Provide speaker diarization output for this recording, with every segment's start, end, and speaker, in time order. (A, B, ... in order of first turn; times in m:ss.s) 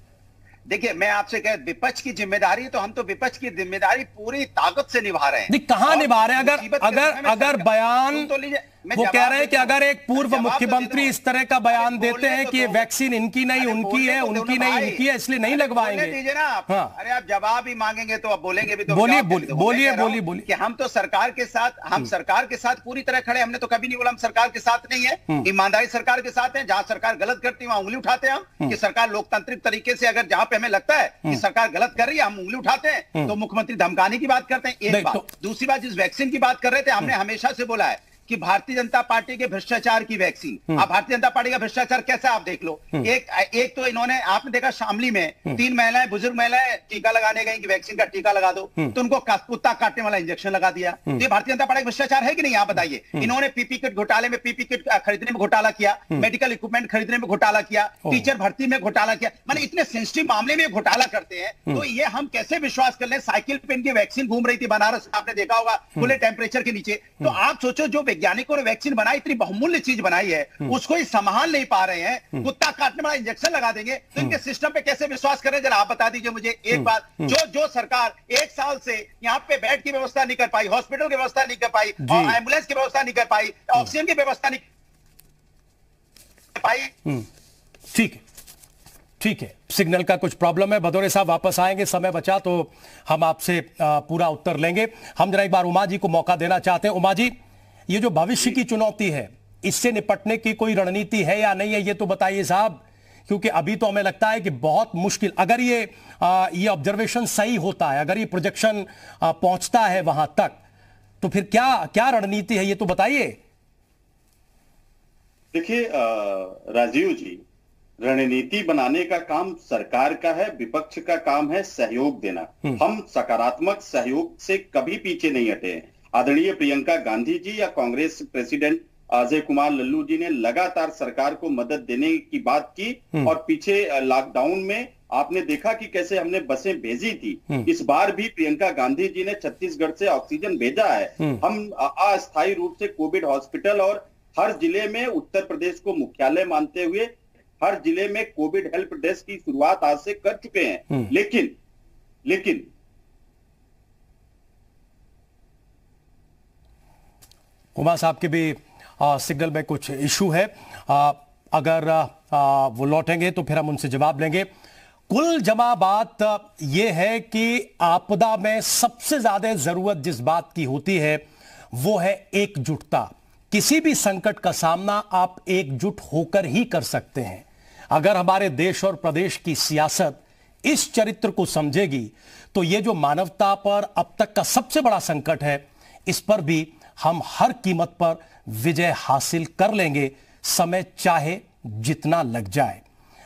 0:00.7-0:11.1 A
0:05.5-0:08.3 B
0:08.9-0:16.2 B
0:11.7-0:12.9 A
0:13.6-1:24.6 A
0:16.7-0:17.0 B
0:18.9-0:20.5 B
0:34.9-0:35.2 B
1:22.0-1:22.4 B
1:26.6-1:26.9 A
1:27.9-1:28.2 B
1:29.2-1:37.4 B
1:37.9-1:50.6 B
1:51.2-1:53.4 B
1:55.5-1:57.4 C
1:58.0-2:31.6 C
2:32.2-2:32.7 C
2:37.8-2:44.5 B
2:45.1-2:51.2 B
2:51.7-3:12.8 B